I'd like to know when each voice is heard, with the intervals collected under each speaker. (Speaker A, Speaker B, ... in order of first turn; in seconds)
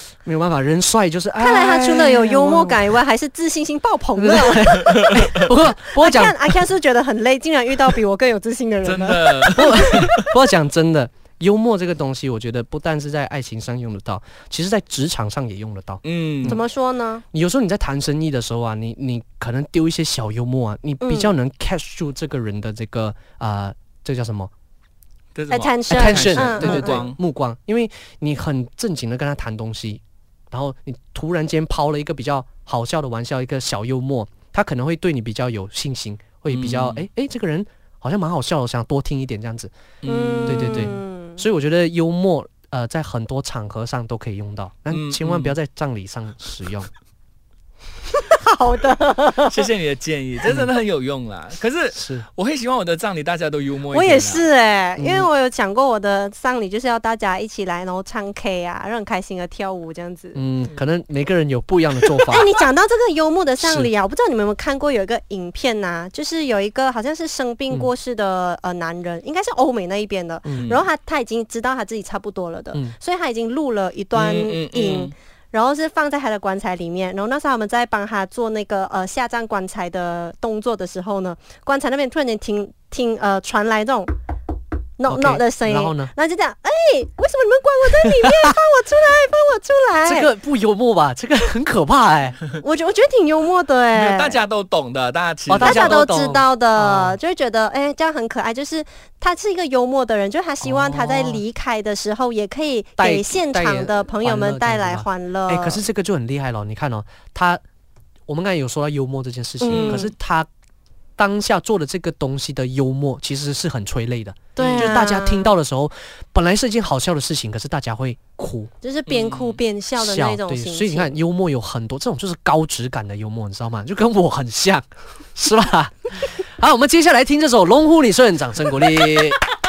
Speaker A: 0.2-3.0, 4.2-6.6, 9.6-16.6, 17.3-24.5, 25.9-39.7, 40.5-46.9, 52.0-52.3, 55.0-55.3, 60.3-62.5, 63.6-63.9, 70.5-70.8, 85.1-86.1, 90.0-92.4, 95.5-97.2, 100.6-101.4, 103.0-107.6, 108.3-110.5, 111.2-118.7, 120.0-129.4
Speaker B: 1.4-5.1, 5.9-10.0, 16.5-17.2, 21.0-21.3, 25.5-27.0, 40.0-41.4, 48.1-49.6, 53.9-60.4, 62.3-84.1, 85.0-90.3, 92.6-94.4, 95.6-105.8, 109.6-110.1, 114.5-115.5, 118.8-121.1
Speaker C: 8.8-10.0, 16.0-16.6, 25.4-27.2, 36.5-37.1, 40.0-41.0, 44.9-45.6, 49.5-54.5, 74.1-75.1, 93.9-96.1, 109.7-110.1, 114.6-115.0, 119.1-119.6